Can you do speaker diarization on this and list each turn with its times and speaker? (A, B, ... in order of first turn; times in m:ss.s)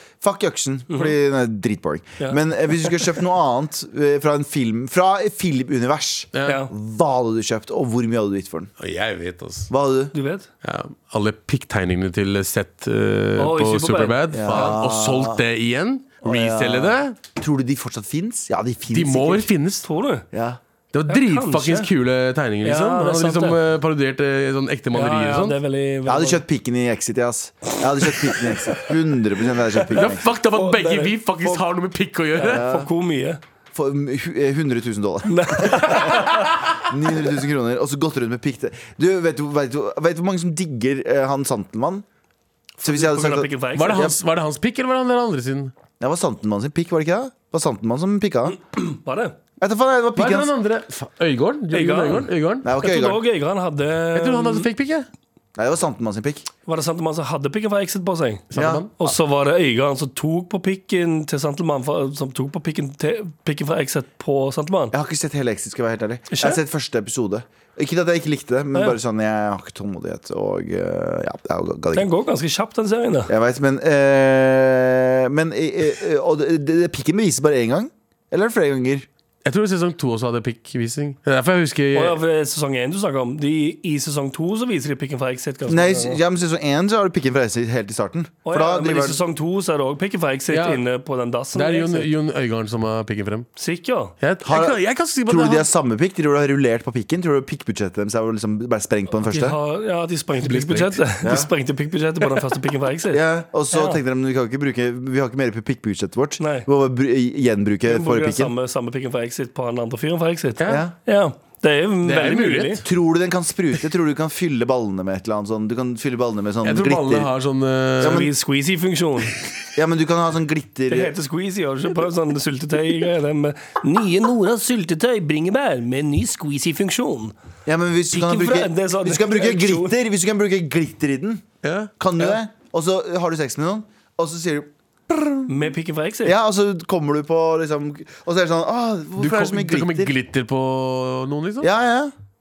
0:00.2-0:08.7 A
0:06.3-0:06.6 B
0:06.4-0:06.7 C
0:08.8-0:09.7 B
0:09.7-0:10.1 A
0:10.1-0:10.5 C
0:10.6-0:17.2 B
0:13.4-0:14.7 C
0:14.3-0:15.4 A
0:16.2-0:19.5 A
0:18.9-0:19.9 B
0:19.8-0:20.3 C
0:20.3-0:20.6 A
0:20.9-0:25.6 B
0:21.1-0:21.9 C
0:22.6-0:23.6 C
0:24.9-0:26.4 C
0:26.1-0:30.2 A
0:28.5-0:28.9 C
0:29.9-0:32.6 B
0:30.0-0:31.6 C
0:32.4-0:33.4 C
0:32.4-0:32.9 A
0:33.7-0:42.0 A
0:35.3-0:36.6 C
0:42.8-0:44.1 C
0:42.8-0:44.2 A
0:43.8-0:45.7 B
0:46.0-0:48.6 A
0:48.7-0:49.4 C
0:49.6-0:50.5 A
0:50.2-0:52.7 B
0:51.7-0:54.7 C
0:52.6-0:53.2 A
0:54.2-0:55.1 B
0:55.6-0:56.5 A
0:56.7-0:58.4 C
0:58.5-0:58.9 B
0:58.6-0:58.9 A
0:59.0-1:05.0 C
1:04.9-1:12.1 A
1:06.3-1:06.6 C
1:11.9-1:13.3 C
1:13.3-1:19.1 A
1:19.4-1:22.2 B
1:21.9-1:26.2 C
1:25.7-1:29.2 A
1:28.4-1:32.1 C
1:30.5-1:30.8 B
1:31.5-1:33.5 B
1:33.6-1:34.2 C
1:34.2-1:35.7 B
1:34.4-1:39.6 A
1:39.3-1:44.0 C
1:40.4-1:41.1 B
1:41.2-1:41.5 A
1:43.1-1:48.5 A
1:46.4-1:46.7 C
1:47.9-1:52.8 C
1:50.6-1:50.8 B
1:50.7-1:50.9 A
1:52.0-1:52.8 B
1:52.8-1:57.3 A
1:56.6-1:58.3 B
1:58.0-1:58.3 A
1:58.0-1:59.4 C
1:59.8-2:01.2 A
2:00.9-2:07.3 C
2:07.7-2:11.4 A
2:08.1-2:10.0 C
2:11.6-2:11.9 B
2:12.0-2:15.7 A
2:15.5-2:16.4 C
2:16.2-2:20.1 A
2:19.2-2:21.7 B
2:21.6-2:22.1 A